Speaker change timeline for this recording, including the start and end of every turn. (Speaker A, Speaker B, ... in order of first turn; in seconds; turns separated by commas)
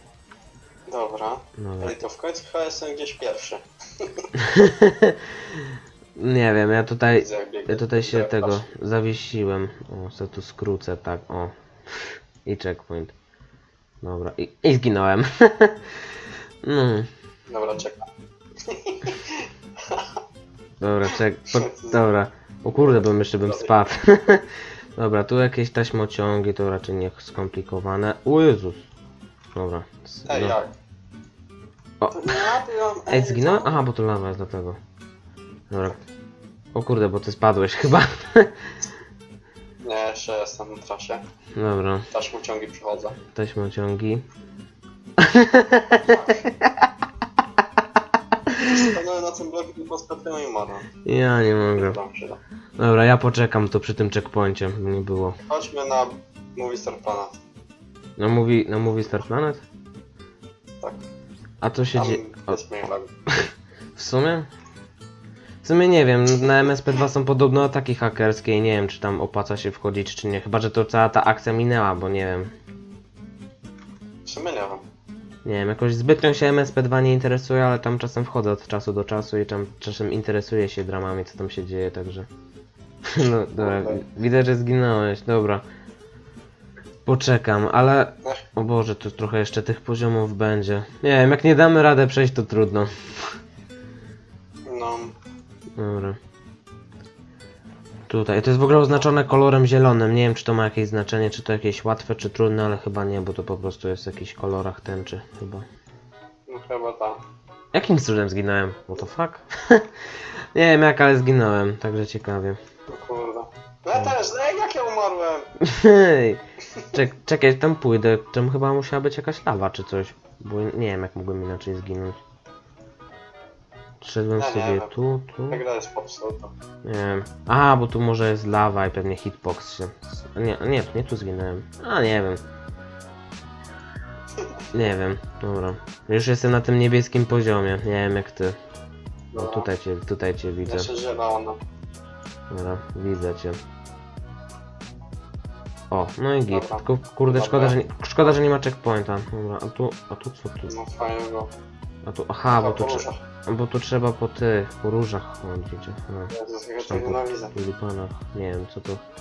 Speaker A: 0.9-4.3, Speaker B: 1.6-2.0, Speaker B: 4.5-13.1, Speaker A: 7.1-8.7, Speaker B: 14.0-15.8, Speaker B: 16.6-17.1, Speaker A: 17.5-18.1, Speaker A: 18.6-20.1, Speaker B: 20.8-28.8, Speaker A: 21.6-22.0, Speaker A: 22.7-23.7, Speaker B: 29.6-30.6, Speaker A: 30.3-30.7, Speaker B: 32.0-32.5, Speaker A: 32.1-33.8, Speaker B: 33.1-34.8, Speaker B: 35.7-36.0, Speaker B: 36.7-38.5, Speaker A: 39.8-41.2, Speaker B: 41.6-42.0, Speaker A: 42.1-43.2, Speaker B: 43.4-44.2, Speaker B: 45.2-46.9, Speaker A: 46.1-46.4, Speaker A: 48.6-50.9, Speaker B: 51.0-52.0, Speaker A: 51.7-52.4, Speaker B: 52.8-55.4, Speaker A: 55.4-57.4, Speaker B: 58.2-59.6, Speaker B: 61.6-62.6, Speaker A: 62.0-63.1, Speaker B: 63.4-64.5, Speaker B: 65.6-72.5, Speaker A: 74.2-74.8, Speaker B: 75.5-82.3, Speaker B: 83.1-85.6, Speaker A: 83.6-84.0, Speaker B: 87.1-93.3, Speaker A: 94.7-95.1, Speaker B: 95.8-96.2, Speaker B: 98.1-105.7, Speaker A: 106.5-107.2, Speaker B: 107.7-109.9, Speaker B: 110.5-112.6, Speaker A: 112.9-115.5, Speaker B: 115.6-116.4, Speaker B: 116.9-122.2, Speaker B: 124.0-125.6, Speaker A: 124.4-124.9, Speaker A: 125.5-126.5, Speaker B: 126.8-132.4, Speaker B: 134.7-138.6, Speaker A: 139.3-139.7, Speaker B: 139.3-140.9, Speaker A: 140.7-141.6, Speaker B: 142.5-143.6, Speaker B: 145.9-150.7, Speaker A: 146.5-148.4, Speaker A: 150.7-151.5, Speaker B: 152.1-159.0, Speaker A: 152.5-153.2, Speaker A: 156.3-157.5